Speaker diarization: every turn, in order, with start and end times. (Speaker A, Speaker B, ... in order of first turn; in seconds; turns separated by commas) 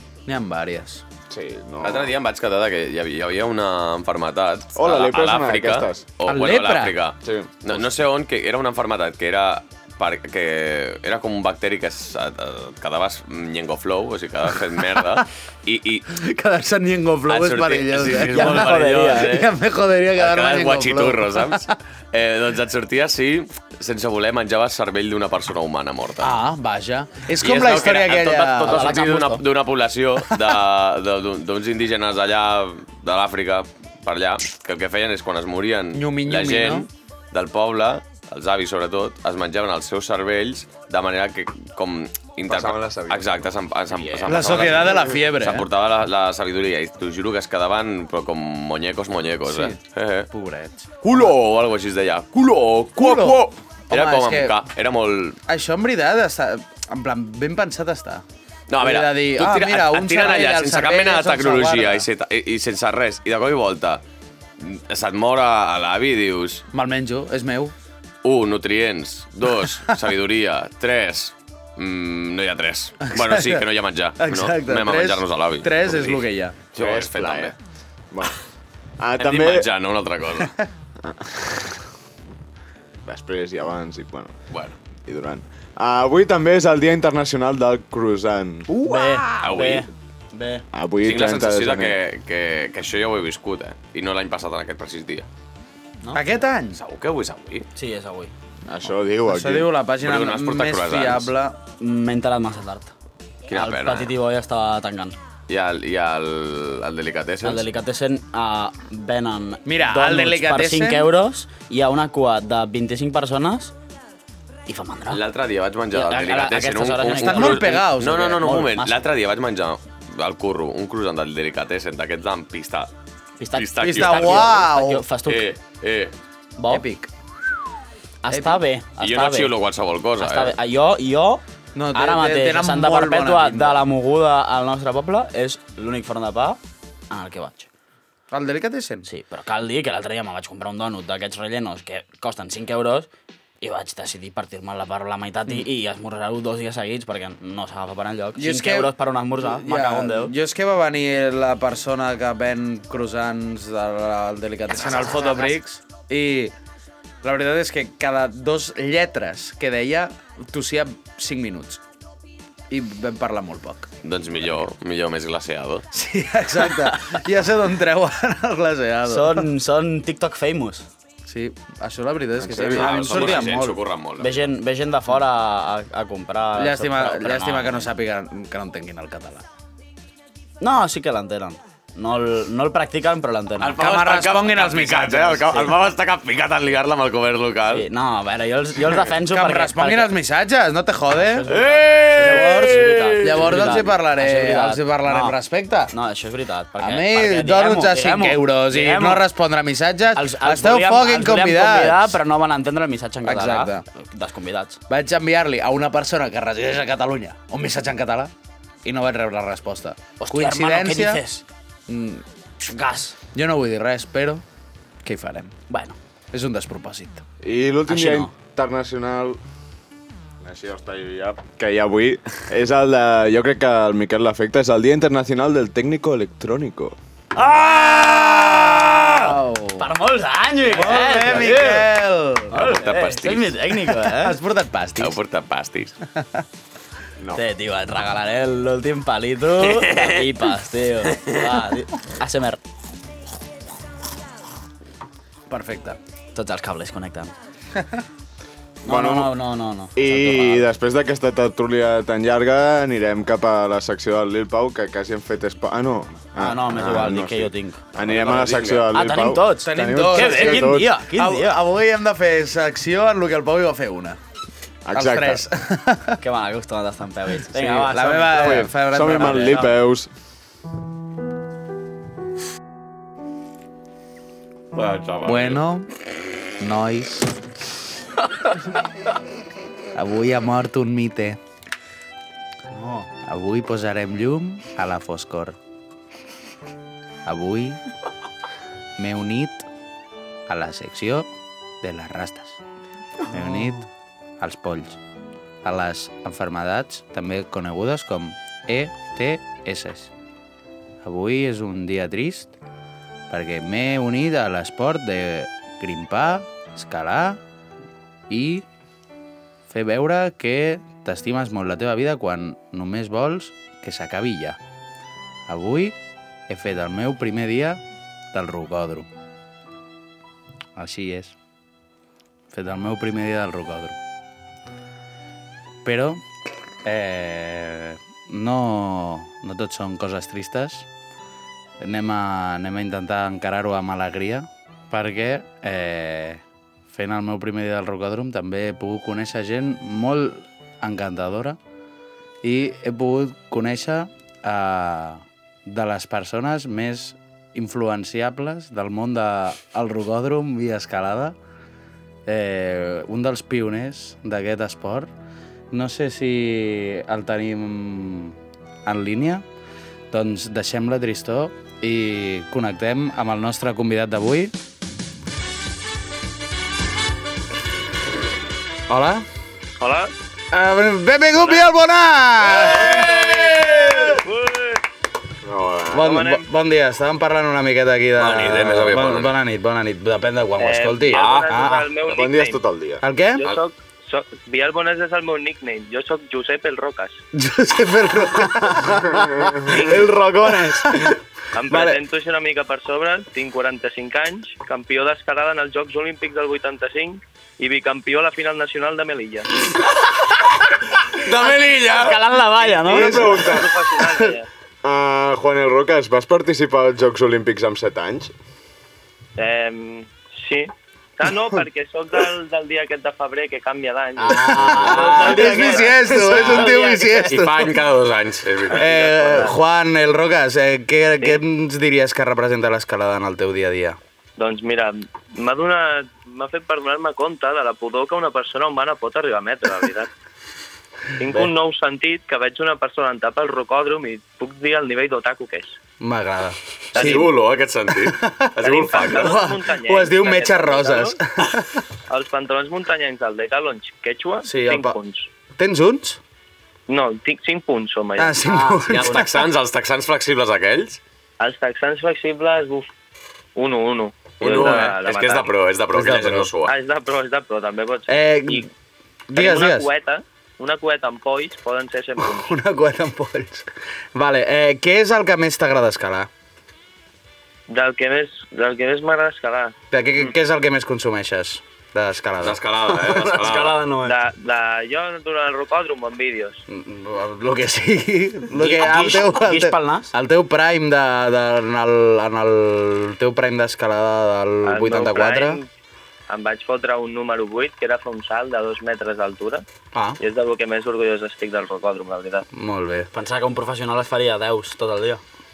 Speaker A: 0.3-1.0, Speaker B: 1.3-2.1, Speaker C: 1.8-16.1, Speaker B: 4.8-6.0, Speaker A: 6.2-7.0, Speaker B: 7.2-7.6, Speaker A: 16.1-21.7, Speaker C: 17.3-19.5, Speaker D: 18.1-19.4, Speaker C: 20.2-26.4, Speaker A: 26.2-28.9, Speaker C: 27.4-50.3, Speaker D: 28.6-29.4, Speaker A: 35.9-36.9, Speaker B: 42.5-45.0, Speaker A: 44.3-45.7, Speaker A: 49.5-49.8, Speaker A: 50.3-51.3, Speaker C: 51.0-55.4, Speaker A: 53.0-54.6, Speaker A: 55.5-58.2, Speaker C: 58.7-64.0, Speaker A: 58.8-62.0, Speaker C: 64.6-66.7, Speaker A: 66.7-67.7, Speaker C: 68.2-77.5, Speaker A: 73.0-73.7, Speaker A: 74.2-76.6, Speaker B: 76.8-77.6, Speaker B: 78.1-78.4, Speaker B: 79.0-79.7, Speaker C: 79.2-80.6, Speaker B: 81.0-81.8, Speaker B: 83.1-84.3, Speaker C: 84.5-84.8, Speaker B: 85.0-88.7, Speaker A: 88.7-89.5, Speaker D: 88.8-90.7, Speaker C: 89.4-89.9, Speaker B: 90.7-92.0, Speaker C: 91.0-95.3, Speaker A: 96.1-96.8, Speaker C: 96.8-97.7, Speaker D: 97.8-98.3, Speaker B: 98.7-99.7, Speaker A: 99.3-101.6, Speaker C: 100.0-101.3, Speaker D: 101.8-102.9, Speaker C: 103.5-104.1, Speaker D: 103.5-105.2, Speaker C: 105.5-107.7, Speaker D: 107.4-113.7, Speaker A: 109.7-111.1, Speaker D: 114.7-115.2, Speaker C: 115.1-122.9, Speaker D: 115.9-119.1, Speaker A: 117.2-118.5, Speaker D: 123.4-125.5, Speaker C: 123.5-124.6, Speaker A: 123.8-125.0, Speaker C: 125.3-126.1, Speaker D: 126.6-126.8, Speaker A: 126.7-127.1, Speaker D: 128.2-129.6, Speaker A: 128.3-128.6, Speaker C: 129.0-130.6, Speaker D: 130.2-136.6, Speaker A: 131.8-133.8, Speaker D: 137.1-137.7, Speaker A: 138.3-139.1, Speaker D: 139.1-143.1, Speaker D: 143.6-150.3, Speaker A: 148.4-156.5, Speaker D: 154.7-155.6, Speaker A: 157.2-161.8, Speaker A: 162.7-163.9, Speaker C: 164.0-165.8, Speaker A: 165.9-169.5, Speaker D: 166.7-167.1, Speaker D: 169.1-170.9, Speaker A: 171.3-173.8, Speaker C: 172.5-174.4, Speaker B: 172.6-172.9, Speaker D: 173.1-173.4, Speaker D: 174.2-177.9, Speaker A: 176.6-179.4, Speaker D: 180.6-183.8, Speaker C: 183.6-187.9, Speaker A: 183.8-185.6, Speaker D: 185.5-185.8, Speaker D: 187.7-190.1, Speaker A: 189.3-191.5, Speaker D: 191.1-195.4, Speaker C: 191.5-193.6, Speaker A: 192.2-195.9, Speaker D: 195.9-199.3, Speaker A: 196.8-202.2, Speaker D: 200.1-204.8, Speaker A: 203.2-203.8, Speaker A: 204.9-208.3, Speaker A: 208.8-211.2, Speaker D: 210.2-211.4, Speaker A: 211.9-212.2, Speaker D: 212.7-213.2, Speaker A: 213.3-214.4, Speaker A: 215.0-215.6, Speaker D: 215.7-216.0, Speaker A: 216.3-217.2, Speaker B: 217.4-219.4, Speaker D: 217.9-218.3, Speaker B: 220.4-226.9, Speaker D: 227.3-231.9, Speaker A: 229.0-229.9, Speaker A: 230.7-232.5, Speaker D: 232.5-234.4, Speaker C: 232.5-233.6, Speaker A: 234.2-235.2, Speaker C: 235.0-235.9, Speaker D: 237.3-242.6, Speaker C: 239.6-240.4, Speaker C: 241.1-241.4, Speaker A: 245.5-246.0, Speaker D: 246.3-247.3, Speaker D: 248.8-250.7, Speaker B: 248.8-249.3, Speaker B: 250.0-260.9, Speaker D: 256.4-261.6, Speaker A: 259.6-264.2, Speaker B: 264.9-265.4, Speaker A: 264.9-266.2, Speaker D: 266.2-269.6, Speaker A: 267.6-269.8, Speaker B: 268.2-270.1, Speaker C: 274.7-275.6, Speaker A: 275.2-275.9, Speaker A: 276.6-277.3, Speaker A: 279.9-281.4, Speaker D: 282.7-283.1, Speaker A: 283.2-285.6, Speaker A: 287.3-287.8, Speaker A: 289.0-289.7, Speaker A: 290.5-291.3, Speaker A: 291.8-292.6, Speaker A: 293.3-293.9, Speaker A: 294.4-295.0, Speaker A: 295.6-300.1, Speaker A: 301.0-302.5, Speaker A: 303.3-307.4, Speaker A: 308.3-308.6, Speaker A: 309.7-314.6, Speaker A: 315.5-316.0, Speaker A: 316.5-317.8, Speaker A: 318.3-319.1, Speaker A: 320.8-321.4, Speaker A: 322.5-324.0, Speaker A: 325.9-326.2, Speaker A: 326.9-330.9, Speaker A: 331.8-341.6, Speaker A: 342.4-351.4, Speaker A: 352.3-355.1, Speaker A: 355.7-359.4, Speaker A: 360.1-364.5, Speaker A: 368.9-369.2, Speaker E: 369.8-370.1, Speaker A: 370.5-374.2, Speaker B: 372.9-373.2, Speaker E: 374.0-374.8, Speaker B: 375.4-376.1, Speaker A: 375.9-381.9, Speaker E: 376.0-376.4, Speaker C: 378.2-379.3, Speaker E: 380.6-382.6, Speaker C: 381.1-381.7, Speaker B: 382.0-383.0, Speaker A: 383.0-383.5, Speaker E: 383.4-387.2, Speaker A: 387.3-391.2, Speaker B: 389.2-390.0, Speaker E: 389.7-390.1, Speaker E: 391.5-399.5, Speaker A: 391.7-392.0, Speaker C: 401.2-402.2, Speaker D: 401.9-403.5, Speaker B: 402.8-404.1, Speaker E: 403.3-404.5, Speaker B: 404.8-408.3, Speaker E: 409.4-415.9, Speaker A: 414.3-417.8, Speaker B: 414.3-416.7, Speaker D: 414.4-417.3, Speaker C: 417.3-419.5, Speaker A: 418.7-424.0, Speaker E: 419.2-419.6, Speaker E: 424.4-430.1, Speaker E: 431.2-435.8, Speaker A: 436.0-437.3, Speaker E: 436.9-437.3, Speaker C: 436.9-439.4, Speaker A: 438.1-441.8, Speaker E: 438.6-441.2, Speaker E: 442.1-445.3, Speaker A: 444.4-445.0, Speaker A: 445.6-446.2, Speaker E: 446.9-448.5, Speaker A: 448.2-449.3, Speaker D: 448.4-449.2, Speaker C: 448.9-451.0, Speaker E: 451.4-452.9, Speaker E: 453.6-455.5, Speaker C: 454.4-456.8, Speaker A: 455.9-456.5, Speaker E: 456.6-458.7, Speaker A: 458.1-458.7, Speaker A: 459.3-459.9, Speaker E: 459.3-462.5, Speaker A: 462.2-466.3, Speaker E: 467.7-470.3, Speaker A: 469.9-474.1, Speaker C: 472.4-473.8, Speaker E: 474.0-476.6, Speaker A: 476.7-485.6, Speaker D: 478.5-480.1, Speaker E: 484.6-485.7, Speaker E: 486.3-489.6, Speaker A: 489.9-490.2, Speaker E: 490.2-492.5, Speaker A: 492.5-493.1, Speaker D: 493.1-495.2